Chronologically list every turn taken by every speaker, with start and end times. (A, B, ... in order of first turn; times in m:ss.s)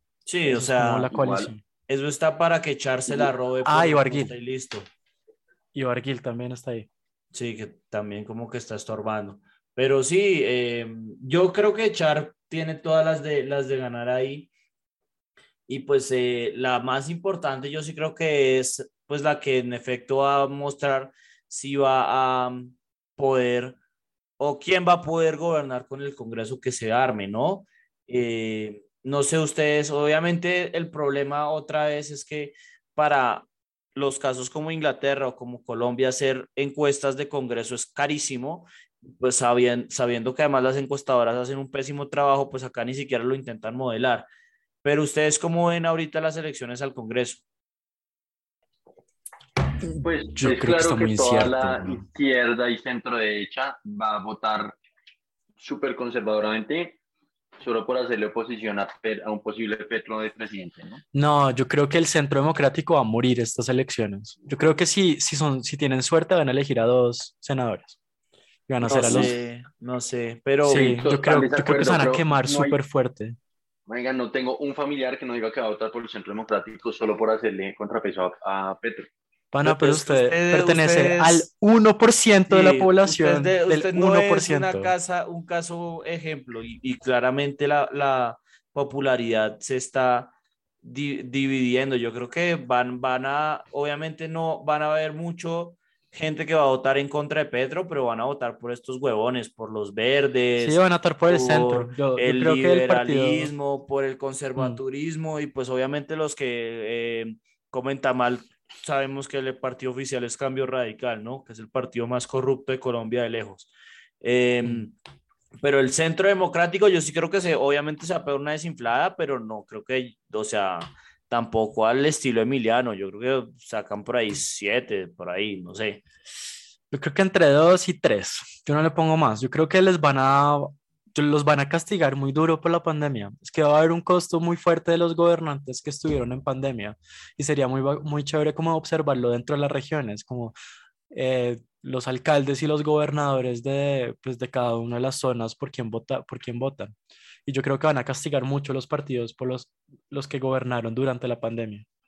0:00.3-0:01.1 A
0:00.5-0:01.6 B
0:01.1-0:01.5 C
0:01.9-0:04.9 A
0:03.6-0:04.4 B
0:05.7-0:06.9 B
0:07.3-0:14.5 A
0:15.7-0:23.8 A
0:24.4-0:44.3 A
0:44.8-0:47.4 A
0:49.8-0:52.1 B
0:50.0-0:54.8 C
0:55.6-0:57.0 C
0:57.6-1:01.0 C
1:01.1-1:08.0 B
1:08.7-1:09.3 B
1:08.8-1:09.3 C
1:08.9-1:11.0 A
1:10.6-1:13.4 B
1:10.8-1:12.8 C
1:13.9-1:19.1 C
1:19.5-1:24.9 B
1:19.6-1:21.5 A
1:22.5-1:54.9 A
1:40.6-1:43.5 B
1:55.6-2:06.0 A
2:06.9-2:20.6 B
2:21.1-2:27.0 B
2:27.5-2:31.8 B